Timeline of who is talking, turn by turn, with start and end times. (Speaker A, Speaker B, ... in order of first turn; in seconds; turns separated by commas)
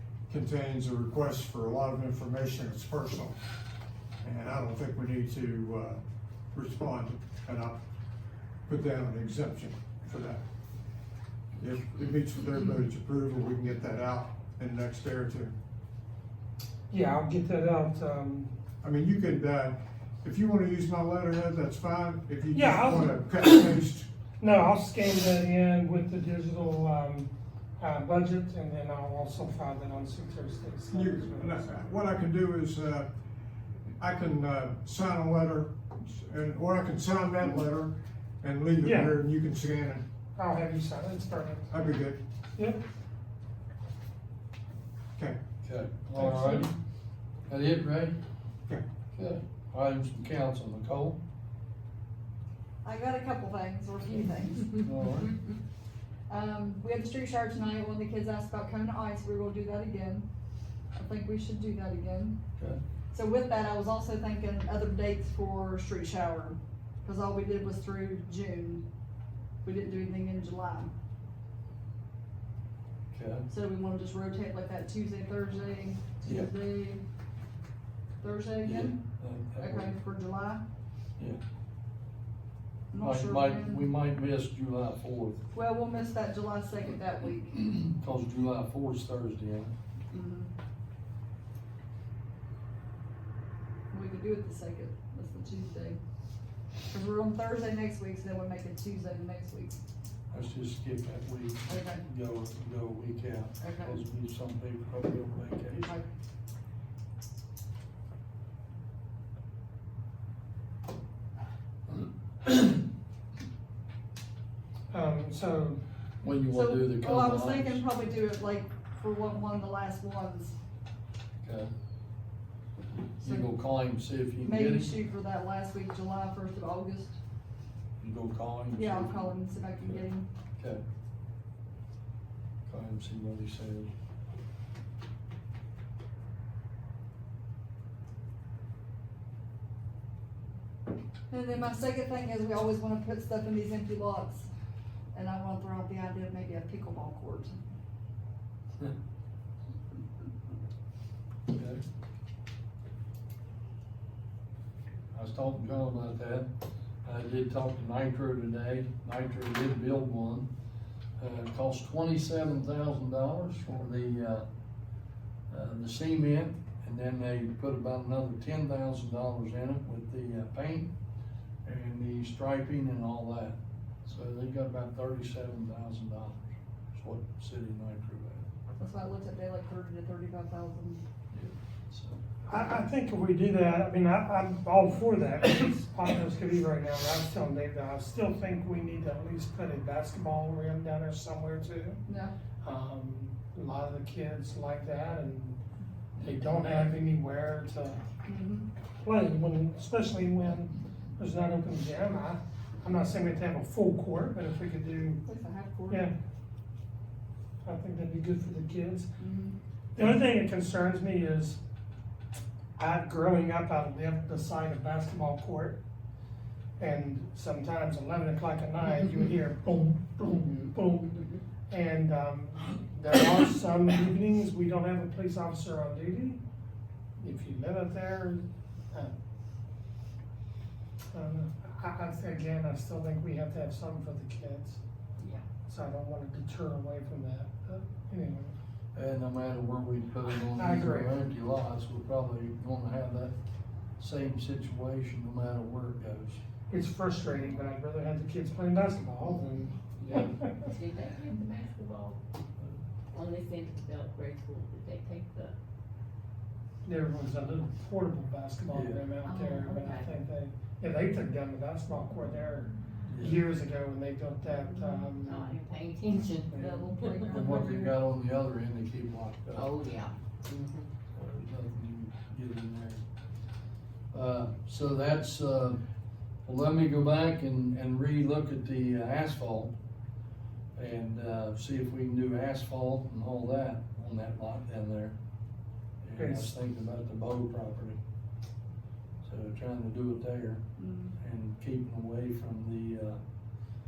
Speaker A: 0.3-3.4, Speaker A: 4.2-6.0, Speaker A: 6.5-7.8, Speaker A: 8.7-10.4, Speaker A: 11.6-15.6, Speaker B: 16.9-18.5, Speaker A: 18.8-24.1, Speaker B: 22.5-23.7, Speaker B: 24.4-31.6, Speaker A: 30.9-33.1, Speaker A: 34.0-40.0, Speaker B: 38.8-39.2, Speaker B: 40.4-41.7, Speaker A: 41.7-42.2, Speaker C: 45.6-46.7, Speaker B: 46.2-46.6, Speaker C: 47.5-48.2, Speaker C: 49.1-51.2, Speaker D: 52.8-54.9, Speaker C: 54.8-55.3, Speaker D: 56.3-60.2, Speaker D: 60.9-62.4, Speaker D: 63.1-68.8, Speaker D: 69.6-70.9, Speaker C: 73.1-73.5, Speaker D: 73.5-77.0, Speaker C: 76.2-76.5, Speaker D: 78.2-79.0, Speaker C: 78.6-79.9, Speaker D: 79.6-80.6, Speaker D: 82.9-83.9, Speaker C: 83.0-85.4, Speaker D: 85.5-87.7, Speaker C: 87.7-89.7, Speaker D: 90.1-90.5, Speaker D: 93.9-96.0, Speaker D: 96.9-99.8, Speaker C: 100.3-105.9, Speaker D: 101.7-102.0, Speaker D: 103.6-104.0, Speaker D: 105.7-106.1, Speaker C: 112.5-112.8, Speaker B: 114.9-115.8, Speaker C: 116.2-117.8, Speaker D: 116.5-120.6, Speaker C: 121.4-121.7, Speaker D: 123.2-123.5, Speaker C: 123.2-125.0, Speaker D: 124.4-127.2, Speaker C: 128.0-129.3, Speaker D: 128.8-130.3, Speaker C: 130.6-130.8, Speaker C: 132.7-133.9, Speaker D: 141.3-144.5, Speaker D: 145.1-147.6, Speaker C: 151.5-151.8, Speaker C: 155.1-156.5, Speaker C: 157.0-160.5, Speaker C: 161.2-164.4, Speaker C: 165.5-170.9, Speaker C: 171.6-178.5, Speaker D: 178.8-181.0, Speaker C: 181.3-182.2, Speaker B: 182.5-192.0, Speaker D: 192.1-192.3, Speaker B: 192.6-195.6, Speaker B: 196.2-198.0, Speaker D: 198.2-198.7, Speaker B: 199.0-205.2, Speaker D: 205.2-206.1, Speaker B: 205.9-206.1, Speaker B: 207.6-209.1, Speaker D: 209.2-209.6, Speaker B: 209.9-211.6, Speaker B: 212.8-215.8, Speaker B: 216.8-226.4, Speaker B: 227.2-229.1, Speaker B: 231.1-234.8, Speaker E: 235.2-235.4, Speaker B: 235.7-238.5, Speaker C: 238.9-243.3, Speaker B: 240.6-241.1, Speaker C: 244.0-246.4, Speaker B: 246.7-250.7, Speaker E: 250.0-252.2, Speaker E: 253.1-255.5, Speaker B: 256.8-265.6, Speaker C: 258.7-259.0, Speaker D: 259.2-259.8, Speaker E: 259.7-260.1, Speaker C: 263.0-263.4, Speaker D: 264.6-265.1, Speaker E: 265.2-266.5, Speaker B: 266.3-266.9, Speaker D: 266.6-268.0, Speaker C: 267.3-269.7, Speaker E: 269.5-270.9, Speaker C: 271.1-273.0, Speaker C: 274.1-275.8, Speaker C: 276.4-279.7, Speaker C: 280.8-285.1, Speaker C: 286.0-288.0, Speaker B: 286.2-286.5, Speaker C: 289.2-290.6, Speaker D: 290.8-291.1, Speaker C: 291.2-293.2